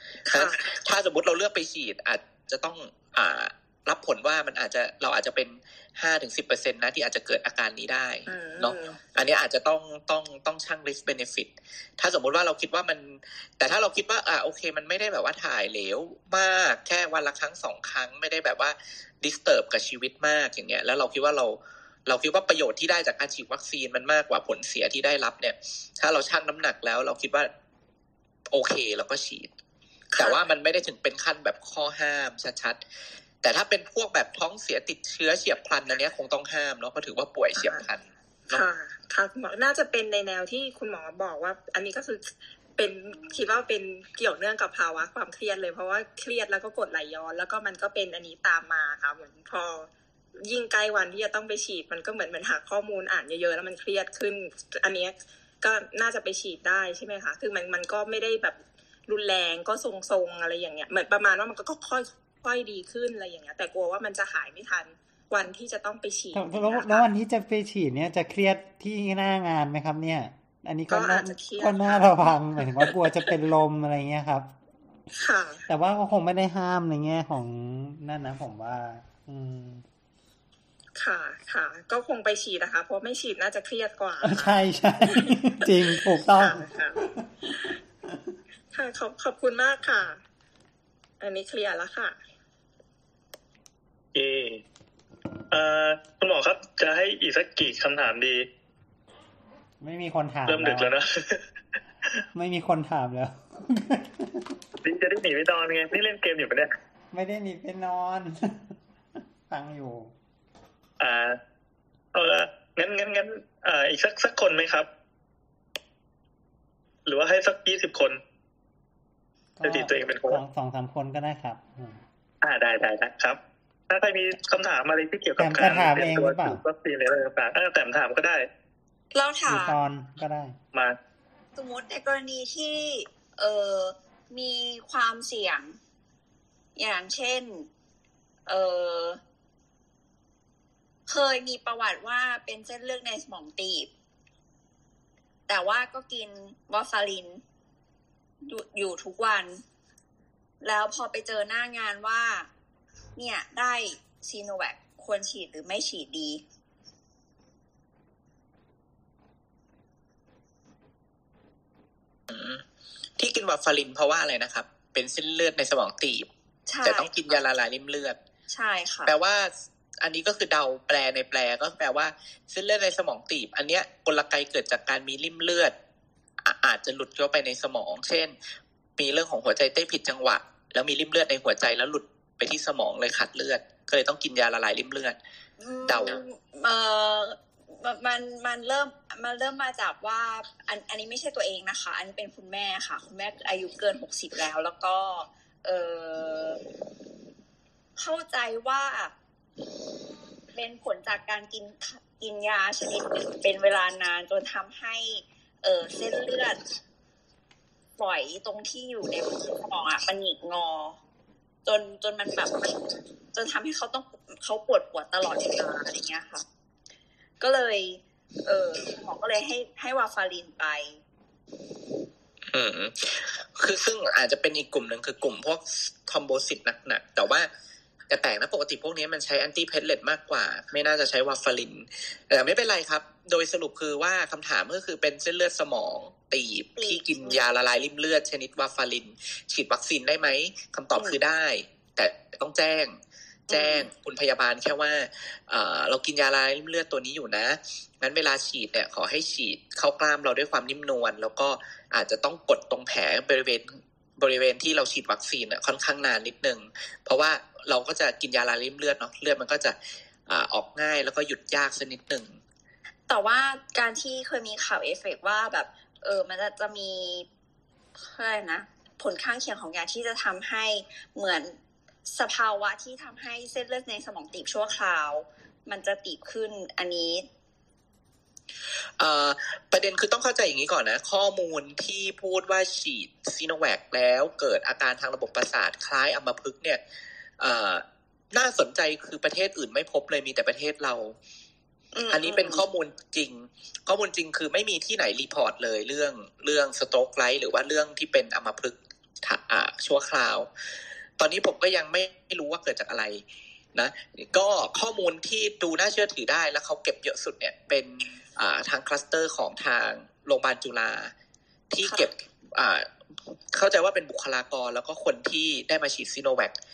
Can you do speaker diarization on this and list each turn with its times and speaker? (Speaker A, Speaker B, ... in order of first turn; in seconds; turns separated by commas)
Speaker A: 0.2-27.5, Speaker B: 0.3-0.6, Speaker B: 8.3-9.0, Speaker A: 28.5-29.5, Speaker B: 30.1-30.4, Speaker A: 30.2-32.8, Speaker A: 33.4-38.6, Speaker B: 37.6-37.8, Speaker B: 38.5-49.9, Speaker B: 50.4-67.0, Speaker C: 66.3-74.5, Speaker B: 70.9-72.2, Speaker B: 75.1-75.6, Speaker C: 75.7-79.8, Speaker B: 81.0-84.5, Speaker C: 84.2-87.5, Speaker B: 86.3-87.0, Speaker B: 88.7-90.2, Speaker B: 91.2-92.2, Speaker D: 94.1-94.6, Speaker D: 95.5-98.5, Speaker C: 99.8-100.9, Speaker D: 100.5-101.4, Speaker C: 102.3-104.5, Speaker D: 104.8-106.7, Speaker C: 107.1-108.7, Speaker C: 109.5-110.1, Speaker D: 111.0-111.4, Speaker D: 112.1-114.9, Speaker D: 117.0-118.2, Speaker C: 119.5-122.0, Speaker D: 119.6-120.4, Speaker D: 122.4-123.4, Speaker D: 123.9-128.5, Speaker C: 125.4-126.6, Speaker E: 129.1-129.8, Speaker C: 129.4-130.6, Speaker E: 131.6-135.8, Speaker E: 136.8-137.7, Speaker E: 138.5-139.2, Speaker E: 141.1-143.9, Speaker E: 145.5-147.4, Speaker E: 148.4-149.6, Speaker E: 150.6-152.5, Speaker E: 153.2-156.4, Speaker A: 162.3-162.6, Speaker A: 163.2-166.3, Speaker E: 166.7-167.1, Speaker A: 166.8-168.2, Speaker E: 168.5-169.1, Speaker A: 169.1-175.7, Speaker A: 176.4-178.3, Speaker A: 179.0-185.2, Speaker E: 185.6-196.6, Speaker A: 185.8-186.2, Speaker E: 198.0-199.1, Speaker E: 200.5-206.6, Speaker E: 208.0-211.0, Speaker E: 211.7-216.4, Speaker E: 217.4-221.0, Speaker A: 222.5-227.5, Speaker A: 228.1-262.4, Speaker E: 236.8-237.4, Speaker E: 240.9-241.2, Speaker E: 243.5-243.8, Speaker E: 263.1-267.2, Speaker E: 268.0-277.2, Speaker A: 279.0-286.8, Speaker A: 287.4-291.1, Speaker E: 291.9-292.6, Speaker A: 292.1-300.5, Speaker A: 301.2-303.2, Speaker A: 303.7-311.1, Speaker A: 311.7-312.9, Speaker A: 313.5-316.5